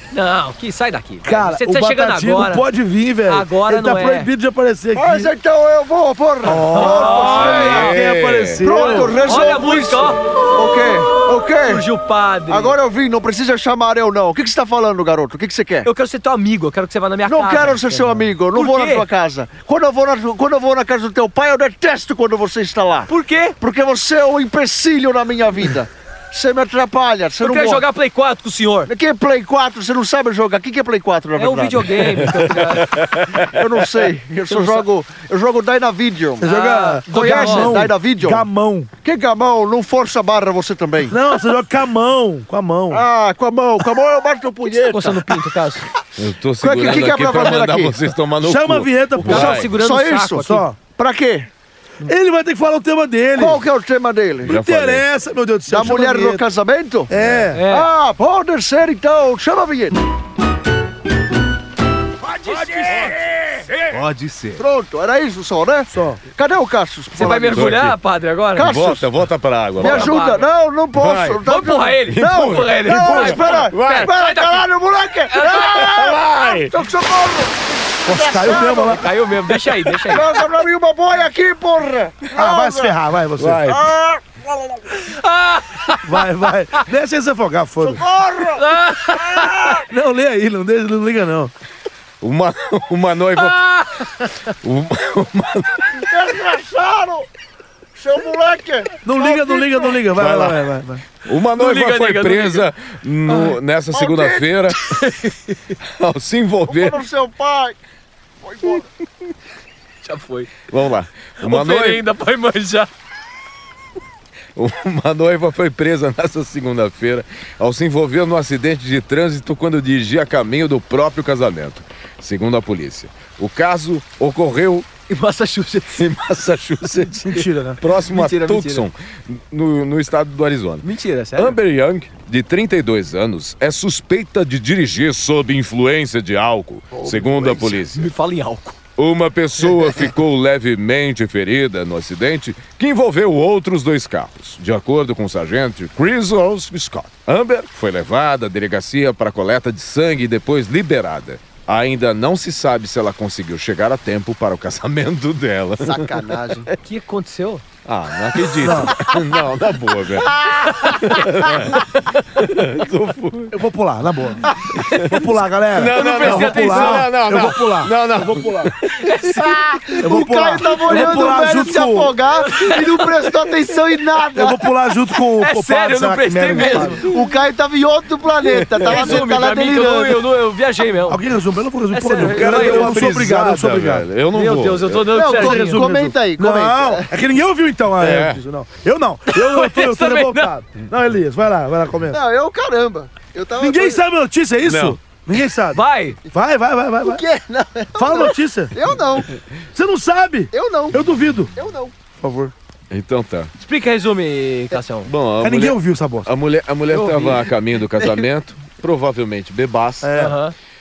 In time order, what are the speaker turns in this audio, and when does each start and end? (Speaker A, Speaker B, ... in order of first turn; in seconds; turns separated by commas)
Speaker A: 0.1-2.6, Speaker B: 1.2-5.3, Speaker A: 3.2-4.3, Speaker C: 4.9-7.9, Speaker B: 6.4-9.3, Speaker A: 6.7-7.9, Speaker D: 7.4-8.6, Speaker C: 8.6-11.8, Speaker A: 8.9-10.2, Speaker A: 11.7-12.8, Speaker C: 12.5-15.9, Speaker A: 15.8-19.0, Speaker C: 17.2-27.9, Speaker A: 23.1-23.6, Speaker A: 27.4-28.9, Speaker C: 28.9-32.6, Speaker A: 31.4-33.0, Speaker D: 32.8-33.5, Speaker C: 33.4-36.5, Speaker A: 34.5-34.8, Speaker B: 36.4-38.9, Speaker A: 36.4-37.8, Speaker C: 37.1-38.5, Speaker C: 39.0-41.2, Speaker B: 41.1-43.0, Speaker C: 42.9-45.3, Speaker A: 44.8-45.9, Speaker D: 46.1-49.7, Speaker C: 46.6-48.0, Speaker B: 48.4-49.6, Speaker A: 49.1-50.6, Speaker C: 49.7-51.5, Speaker B: 50.4-50.8, Speaker B: 52.0-53.6, Speaker C: 53.4-54.6, Speaker B: 54.4-56.4, Speaker D: 54.5-55.0, Speaker C: 55.7-60.0, Speaker B: 57.1-57.6, Speaker D: 57.2-57.5, Speaker A: 57.5-57.9, Speaker D: 62.3-64.6, Speaker A: 62.4-63.2, Speaker C: 64.6-67.8, Speaker B: 65.9-66.2, Speaker A: 67.2-68.7, Speaker D: 67.5-67.9, Speaker C: 68.5-69.1, Speaker D: 68.6-70.2, Speaker C: 69.8-79.0, Speaker A: 69.8-70.5, Speaker D: 71.0-71.4, Speaker A: 71.4-74.6, Speaker D: 72.1-74.1, Speaker A: 75.3-75.9, Speaker D: 75.5-76.8, Speaker B: 78.0-79.1, Speaker A: 78.7-80.2, Speaker C: 80.0-82.9, Speaker B: 82.3-83.8, Speaker D: 83.4-83.8, Speaker C: 83.7-85.0, Speaker A: 85.0-86.2, Speaker B: 85.9-88.0, Speaker C: 87.8-89.8, Speaker A: 88.6-89.8, Speaker B: 89.9-91.5, Speaker D: 92.2-93.6, Speaker A: 93.4-94.3, Speaker D: 94.6-95.9, Speaker C: 96.0-97.3, Speaker C: 97.9-100.0, Speaker B: 99.0-101.0, Speaker D: 100.2-100.6, Speaker D: 101.2-104.8, Speaker A: 101.5-102.7, Speaker C: 103.9-104.5, Speaker A: 104.9-105.7, Speaker D: 105.9-107.0, Speaker C: 106.7-107.8, Speaker C: 108.4-108.8, Speaker A: 110.0-110.5, Speaker D: 110.7-112.0, Speaker A: 111.4-112.9, Speaker D: 114.5-124.9, Speaker A: 125.1-126.0, Speaker D: 126.0-138.1, Speaker B: 127.2-127.8, Speaker A: 128.1-128.8, Speaker A: 130.8-131.5, Speaker A: 137.1-138.8, Speaker D: 139.0-156.2, Speaker C: 155.8-156.7, Speaker A: 156.8-157.6, Speaker D: 157.8-160.3, Speaker B: 158.6-158.9, Speaker C: 160.2-161.3, Speaker A: 160.8-161.2, Speaker D: 160.8-163.5, Speaker B: 163.5-164.4, Speaker D: 164.8-169.4, Speaker B: 165.0-168.7, Speaker A: 165.9-167.1, Speaker A: 169.0-169.3, Speaker C: 169.3-174.6, Speaker B: 170.0-172.1, Speaker A: 170.9-171.2, Speaker A: 172.3-173.1, Speaker B: 174.3-177.0, Speaker A: 175.4-177.1, Speaker C: 177.0-180.2, Speaker D: 178.4-179.2, Speaker A: 178.8-181.2, Speaker B: 181.1-184.1, Speaker A: 181.9-183.0, Speaker D: 182.3-185.2, Speaker A: 184.3-185.8, Speaker C: 185.1-187.1, Speaker B: 185.2-192.2, Speaker D: 188.0-188.4, Speaker A: 189.3-190.5, Speaker C: 192.1-194.0, Speaker B: 193.6-197.2, Speaker D: 194.6-195.0, Speaker A: 195.7-196.2, Speaker C: 197.0-199.3, Speaker B: 197.9-198.7, Speaker B: 199.7-201.5, Speaker C: 200.5-201.9, Speaker B: 202.2-202.5, Speaker D: 202.9-203.5, Speaker A: 203.6-205.1, Speaker D: 205.1-210.2, Speaker B: 205.4-206.3, Speaker A: 206.9-207.4, Speaker B: 210.0-210.3, Speaker A: 210.2-210.5